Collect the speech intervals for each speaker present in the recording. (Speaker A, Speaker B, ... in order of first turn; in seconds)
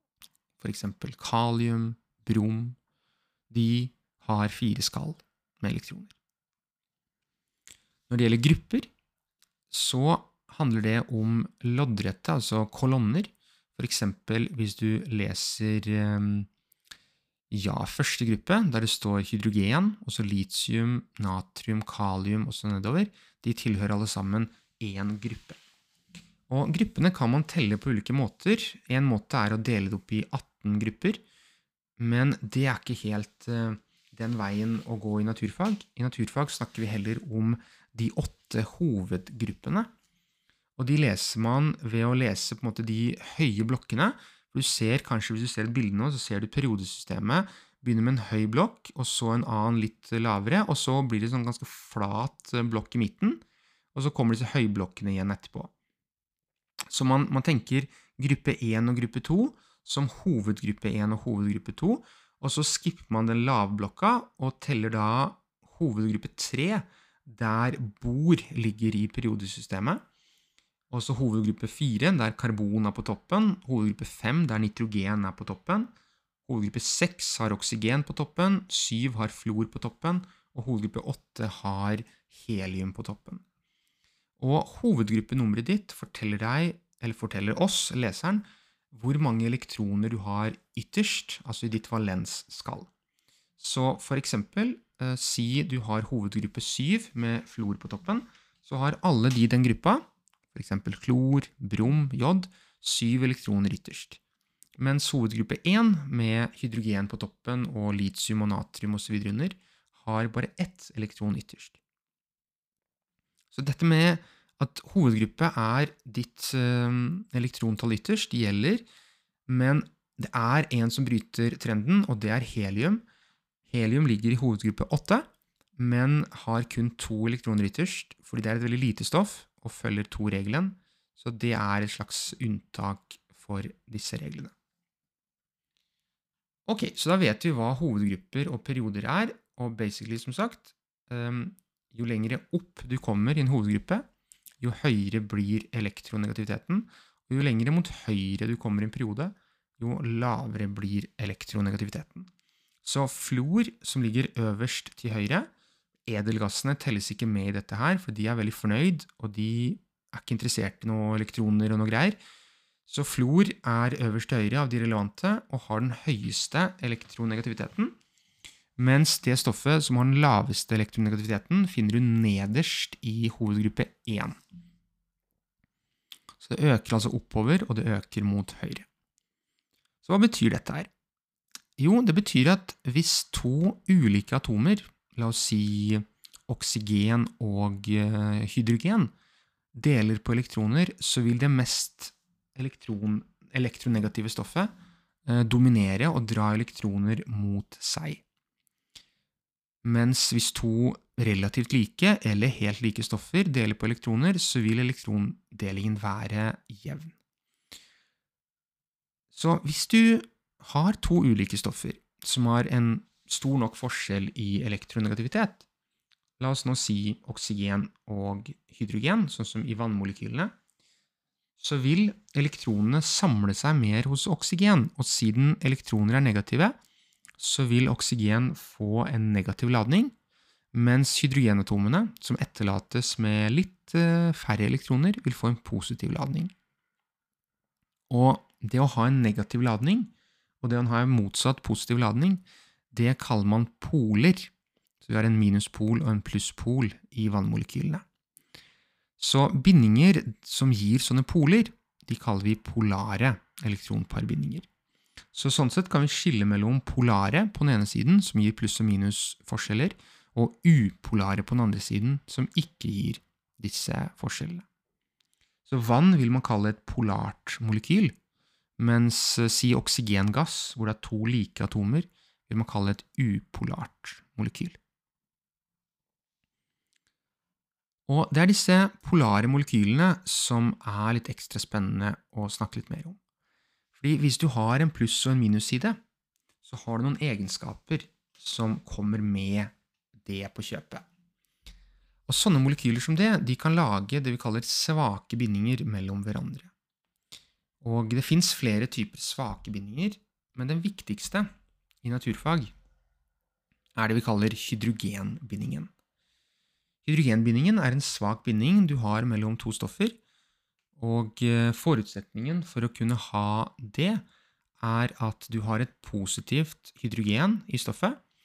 Speaker A: 0.6-2.8, 3.5-6.1, 8.1-8.9, 9.7-16.5, 17.5-25.6, 26.5-31.2, 32.0-39.9, 40.8-53.4, 53.9-55.7, 56.9-70.0, 70.9-75.9, 76.5-83.4, 84.4-92.9, 93.6-104.2, 104.8-111.8, 113.5-118.8, 119.5-123.0, 123.7-125.2, 125.8-134.5, 136.7-144.0, 144.6-152.3, 152.8-155.5, 156.1-162.2, 162.9-167.9, 168.8-174.4, 176.4-178.9, 180.0-180.9, 181.8-189.1, 189.7-194.7, 195.2-198.2, 199.8-207.1, 209.3-215.6, 216.4-220.5, 221.6-226.7, 227.4-230.1, 230.7-236.5, 238.1-244.5, 245.0-248.0, 249.2-254.7, 255.3-264.6, 265.6-268.1, 268.8-274.8, 278.1-283.2, 283.9-286.0, 286.6-289.7, 290.2-291.0, 292.3-296.7, 297.8-301.5, 302.0-302.7, 303.9-305.9, 307.0-310.2, 311.0-314.2, 314.8-318.2